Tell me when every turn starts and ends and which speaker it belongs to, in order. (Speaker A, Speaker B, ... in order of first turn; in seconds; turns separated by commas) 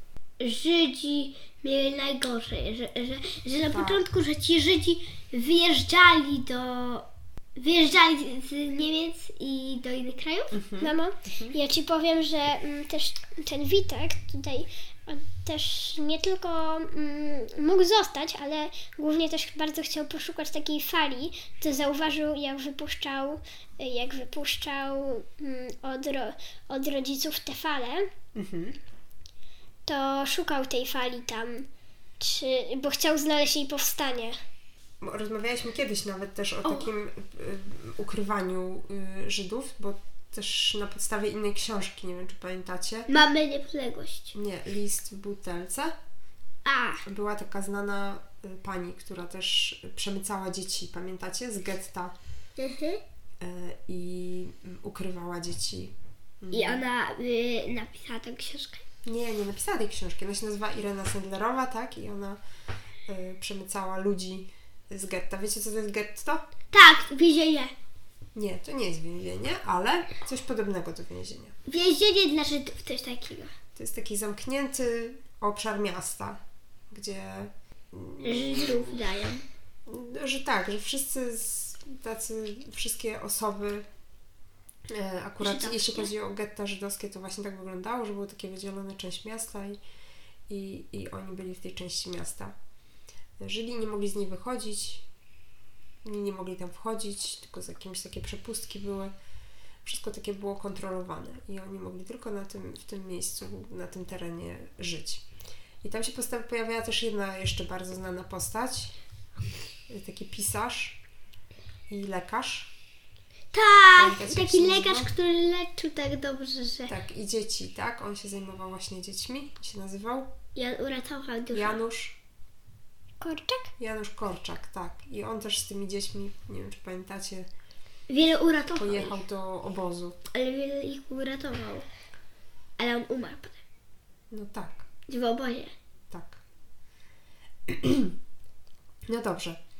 Speaker A: 0.4-7.0, Speaker B: 3.7-4.1, Speaker A: 7.6-10.5, Speaker B: 10.5-11.6, Speaker C: 10.8-28.1, Speaker B: 28.4-28.8, Speaker C: 29.9-31.7, Speaker C: 32.2-34.4, Speaker B: 35.0-43.1, Speaker A: 36.6-36.9, Speaker A: 43.1-44.3, Speaker B: 44.3-45.9, Speaker A: 46.6-47.0, Speaker B: 47.0-52.1, Speaker A: 52.6-53.0, Speaker B: 53.4-56.9, Speaker A: 56.5-58.8, Speaker B: 59.0-62.4, Speaker B: 63.1-66.4, Speaker A: 66.7-67.7, Speaker B: 68.3-71.5, Speaker A: 71.7-73.5, Speaker B: 73.8-76.4, Speaker B: 76.9-79.0, Speaker A: 78.2-79.4, Speaker B: 79.9-83.9, Speaker B: 84.9-89.8, Speaker A: 85.4-86.1, Speaker B: 90.5-92.5, Speaker B: 93.4-95.0, Speaker B: 96.0-99.1, Speaker B: 99.8-105.2, Speaker B: 105.8-109.0, Speaker B: 109.9-111.0, Speaker B: 111.9-112.7, Speaker A: 113.5-116.9, Speaker B: 113.9-115.1, Speaker B: 116.9-120.3, Speaker A: 120.5-121.8, Speaker B: 121.5-122.2, Speaker C: 123.2-123.7, Speaker B: 123.8-127.5, Speaker A: 128.1-129.2, Speaker B: 128.7-130.2, Speaker A: 130.3-131.9, Speaker A: 132.8-133.6, Speaker B: 134.3-134.8, Speaker A: 135.1-135.7, Speaker B: 136.1-136.4, Speaker B: 137.7-138.2, Speaker B: 139.1-139.6